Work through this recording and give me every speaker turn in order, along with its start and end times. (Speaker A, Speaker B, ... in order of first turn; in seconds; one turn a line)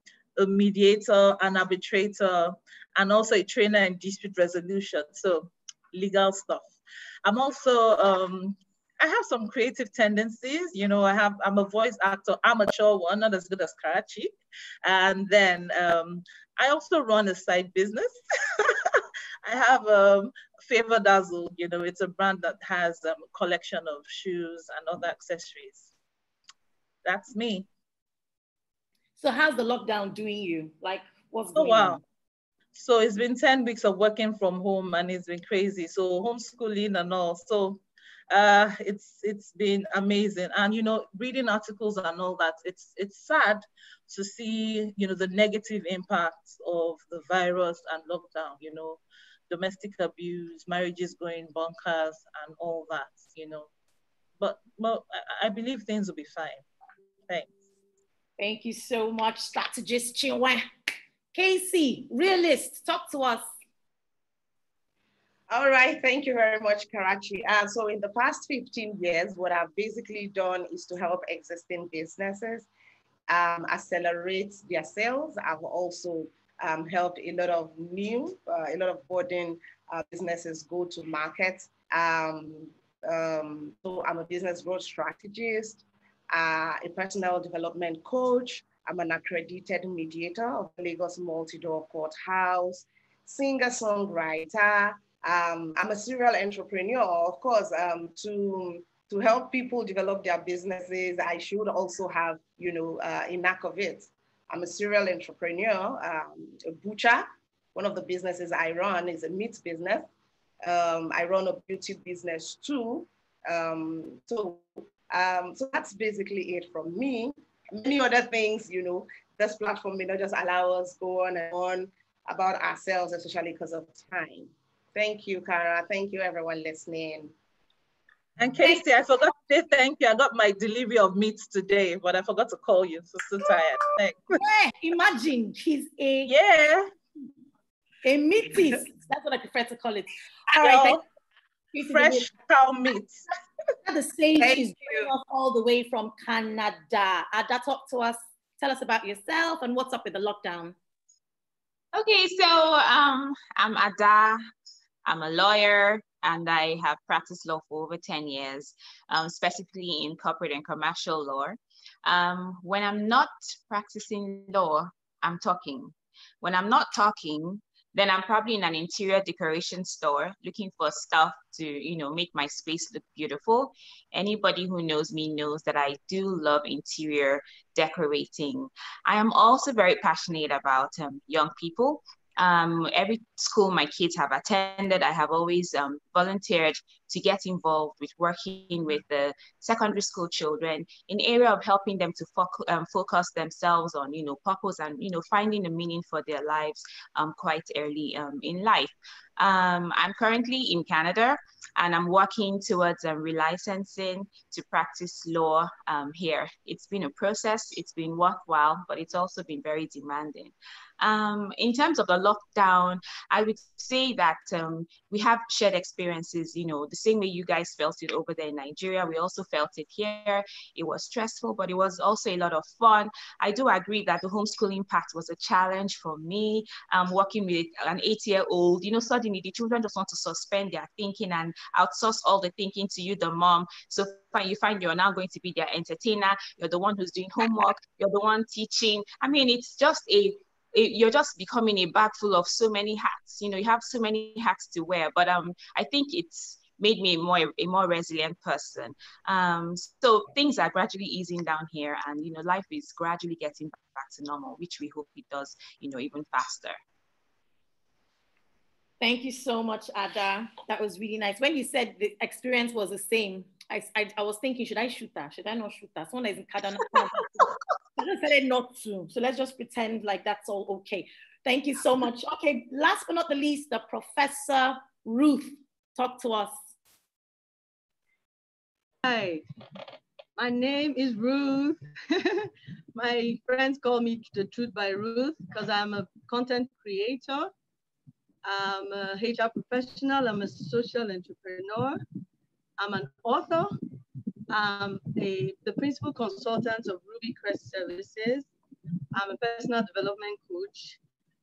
Speaker A: 0.4-25.9
Speaker A: 27.0-27.7
Speaker B: 29.2-32.0
Speaker A: 31.6-32.0
Speaker A: 32.7-53.7
Speaker A: 54.4-56.6
Speaker A: 57.3-57.6
Speaker B: 58.4-60.6
Speaker B: 61.3-63.5
Speaker C: 65.5-72.7
Speaker C: 73.3-110.1
Speaker C: 110.6-127.3
Speaker A: 128.4-134.3
Speaker B: 134.3-136.3
Speaker A: 136.2-136.9
Speaker B: 138.0-141.0
Speaker A: 140.5-141.0
Speaker B: 141.7-142.3
Speaker A: 141.8-143.3
Speaker B: 143.8-150.7
Speaker C: 144.4-145.1
Speaker D: 151.9-154.4
Speaker D: 155.1-256.8
Speaker B: 259.0-276.6
Speaker E: 279.0-279.4
Speaker E: 280.4-287.5
Speaker E: 288.4-292.0
Speaker E: 292.8-293.7
Speaker E: 294.5-298.5
Speaker E: 299.1-301.0